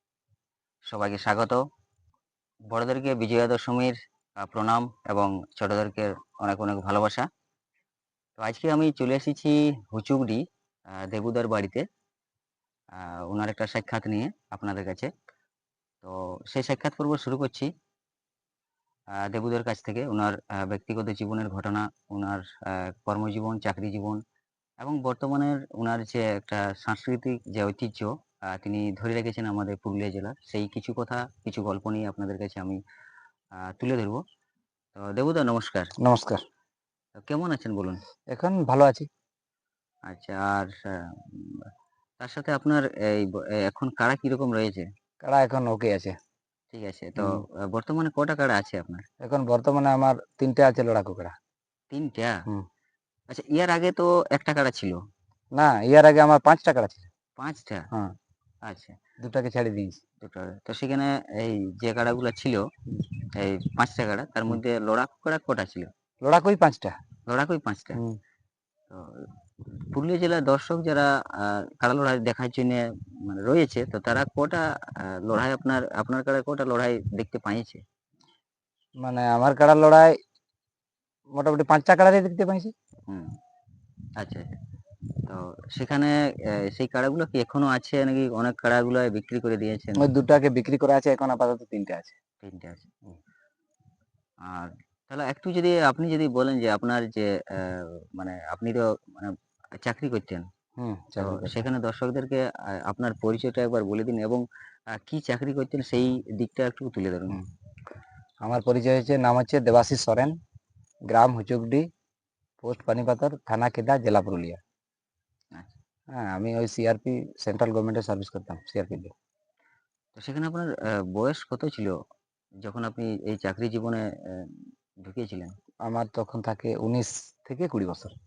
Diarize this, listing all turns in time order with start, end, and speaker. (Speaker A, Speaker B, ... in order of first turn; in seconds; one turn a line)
Speaker A: 0.9-1.6
Speaker A: 2.7-7.3
Speaker A: 8.4-11.8
Speaker A: 12.9-15.1
Speaker A: 16.0-17.7
Speaker A: 19.1-24.2
Speaker A: 24.8-32.8
Speaker A: 33.6-34.2
Speaker A: 34.9-35.9
Speaker B: 36.0-36.4
Speaker A: 37.2-38.0
Speaker B: 38.3-39.1
Speaker A: 40.1-41.7
Speaker A: 42.2-44.9
Speaker B: 45.2-46.1
Speaker A: 46.7-49.0
Speaker B: 47.2-47.4
Speaker B: 49.2-51.3
Speaker A: 51.9-52.4
Speaker A: 53.3-55.0
Speaker B: 55.5-57.1
Speaker A: 57.4-57.9
Speaker A: 58.6-59.0
Speaker B: 59.2-60.0
Speaker A: 60.2-62.6
Speaker A: 63.4-65.9
Speaker B: 66.2-66.9
Speaker A: 67.3-68.0
Speaker A: 68.9-77.8
Speaker B: 79.0-80.1
Speaker B: 81.3-82.7
Speaker A: 83.1-83.3
Speaker A: 84.2-84.5
Speaker A: 85.2-90.0
Speaker B: 90.0-92.2
Speaker A: 92.4-92.9
Speaker A: 94.4-100.5
Speaker B: 100.8-101.5
Speaker A: 101.2-107.4
Speaker B: 108.5-110.3
Speaker B: 111.1-111.8
Speaker B: 112.6-114.6
Speaker B: 116.1-119.1
Speaker A: 120.2-122.0
Speaker A: 122.6-125.5
Speaker B: 125.8-128.1